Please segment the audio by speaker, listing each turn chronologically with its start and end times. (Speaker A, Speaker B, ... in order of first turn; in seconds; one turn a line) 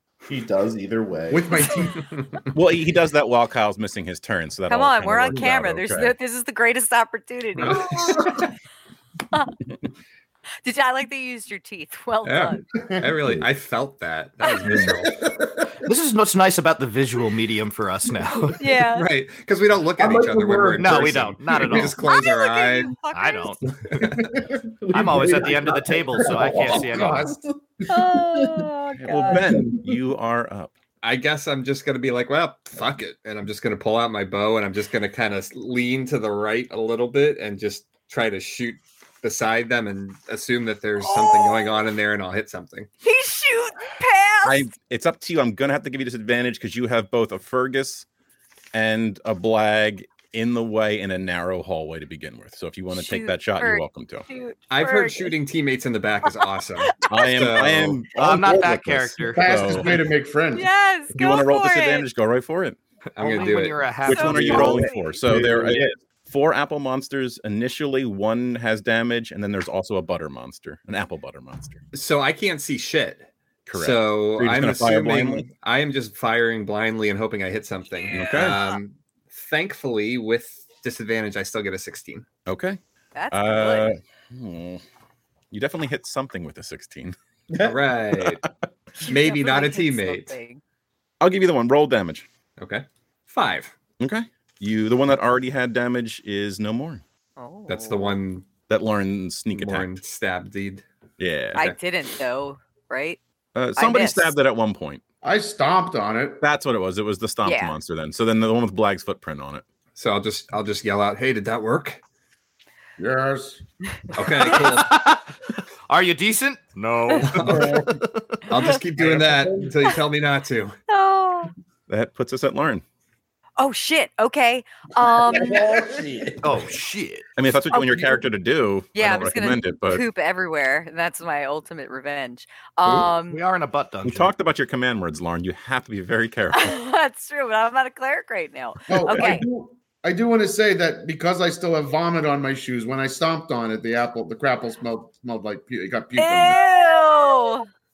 Speaker A: 0.3-1.7
Speaker B: 1.3-2.1
Speaker C: 2.0-2.4
Speaker D: 2.5-6.1
Speaker E: 4.7-8.4
Speaker C: 7.6-8.2
Speaker B: 7.9-8.4
Speaker E: 10.6-12.7
Speaker C: 12.2-15.2
Speaker B: 12.8-13.1
Speaker B: 14.7-15.7
Speaker F: 15.8-18.6
Speaker E: 18.5-19.1
Speaker C: 18.8-23.0
Speaker B: 20.0-21.8
Speaker F: 20.8-22.0
Speaker E: 22.0-23.6
Speaker F: 23.1-23.8
Speaker C: 23.9-24.2
Speaker B: 23.9-24.5
Speaker A: 24.4-28.6
Speaker F: 24.9-27.3
Speaker B: 25.2-25.4
Speaker B: 26.4-27.4
Speaker E: 27.9-29.4
Speaker D: 29.0-30.7
Speaker A: 29.2-29.9
Speaker C: 31.0-42.9
Speaker E: 41.0-41.8
Speaker E: 43.0-44.7
Speaker D: 44.4-48.0
Speaker D: 48.7-54.3
Speaker E: 52.9-55.3
Speaker C: 54.7-58.0
Speaker E: 56.8-57.3
Speaker D: 57.1-60.0
Speaker F: 58.1-60.0
Speaker B: 59.2-60.7
Speaker E: 60.5-62.1
Speaker D: 61.1-62.8
Speaker C: 63.2-64.0
Speaker F: 63.2-64.9
Speaker D: 64.0-71.8
Speaker E: 64.1-65.2
Speaker A: 64.5-65.9
Speaker C: 71.9-82.3
Speaker D: 73.7-75.5
Speaker D: 78.1-78.6
Speaker D: 82.5-82.8
Speaker E: 83.1-83.9
Speaker D: 83.3-84.8
Speaker D: 85.5-87.2
Speaker A: 87.5-87.8
Speaker C: 87.6-88.4
Speaker E: 89.0-90.6
Speaker C: 89.0-90.3
Speaker D: 91.2-92.3
Speaker C: 92.6-93.7
Speaker D: 94.0-97.0
Speaker E: 97.4-98.2
Speaker C: 97.7-98.5
Speaker D: 98.7-100.0
Speaker C: 99.5-100.8
Speaker D: 101.2-101.7
Speaker E: 101.5-103.2
Speaker D: 103.5-105.0
Speaker E: 103.8-104.3
Speaker B: 105.2-106.4
Speaker D: 106.4-109.6
Speaker E: 107.4-107.8
Speaker C: 110.0-112.0
Speaker B: 113.0-113.6
Speaker E: 114.0-114.5
Speaker C: 114.1-115.0
Speaker F: 114.4-115.3
Speaker F: 115.9-118.4
Speaker C: 117.2-117.8
Speaker B: 117.4-118.0
Speaker C: 118.5-120.8
Speaker B: 119.0-119.7
Speaker E: 120.9-121.5
Speaker D: 121.9-122.8
Speaker E: 123.6-126.0
Speaker A: 125.2-126.7
Speaker F: 126.4-127.2
Speaker D: 127.4-130.0
Speaker E: 127.7-128.2
Speaker E: 128.9-133.4
Speaker F: 133.2-134.3
Speaker D: 134.0-136.8
Speaker E: 136.5-139.4
Speaker B: 138.9-146.6
Speaker E: 146.2-147.7